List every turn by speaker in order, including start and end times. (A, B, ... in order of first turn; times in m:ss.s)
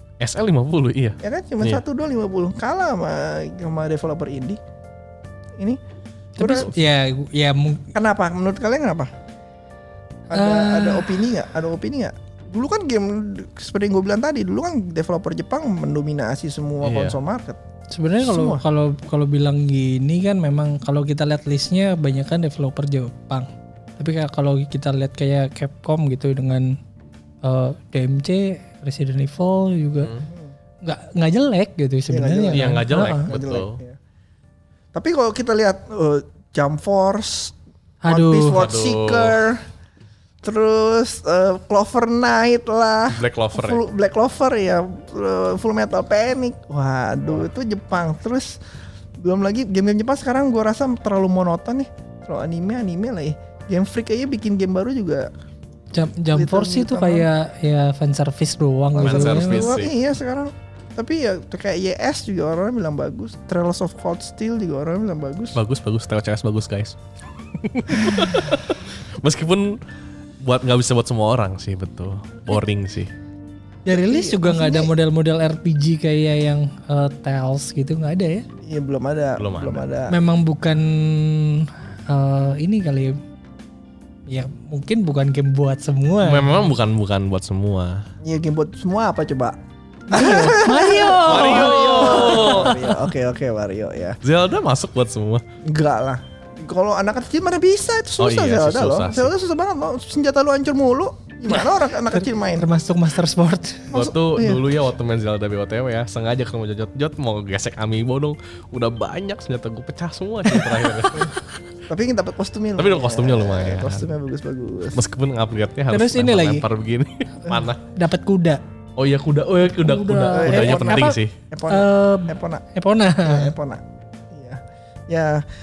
0:00.2-0:01.8 A
0:01.2-0:04.6 B
0:06.4-0:06.7 B
0:06.4-0:07.9 C
0:07.9-0:09.1 B
0:10.3-0:17.6 B
0:10.3-0:11.1 C
0:16.8-0:17.2 A
0:17.9-0:26.8 C
0:18.2-0:18.6 B
0:27.4-0:30.1 C
0:30.2-0:30.5 B
0:30.8-0:33.3 C
0:32.1-0:34.0 B
0:32.5-0:33.8 A
0:34.9-0:37.6 B
0:38.0-0:38.6 C
0:38.1-0:39.6 B
0:38.6-0:39.4 A
0:40.4-0:48.6 B
0:43.1-0:43.8 A
0:49.2-0:55.3 B
0:55.9-0:59.7 C
0:56.3-0:57.3 B
0:58.9-1:05.6 B
0:59.0-0:59.9 A
1:05.6-1:07.0 A
1:07.5-1:09.8 A
1:10.4-1:13.1 A
1:13.9-1:18.5 C
1:13.9-1:14.9 B
1:18.6-1:20.2 B
1:19.4-1:19.8 A
1:20.1-1:23.2 C
1:24.3-1:26.7 C
1:26.2-1:28.0 A
1:28.2-1:29.6 B
1:30.1-1:32.9 C
1:30.1-1:34.2 B
1:31.2-1:32.8 A
1:34.2-1:35.4 A
1:35.6-1:42.7 B
1:38.2-1:39.3 A
1:41.6-1:43.9 C
1:43.9-1:44.6 B
1:43.9-1:51.3 A
1:51.9-1:55.0 B
1:52.8-1:54.1 A
1:54.9-1:57.8 A
1:55.9-1:56.6 C
1:57.9-1:58.6 C
1:59.0-2:01.3 A
1:59.8-2:03.5 C
2:00.3-2:02.6 B
2:03.2-2:05.4 B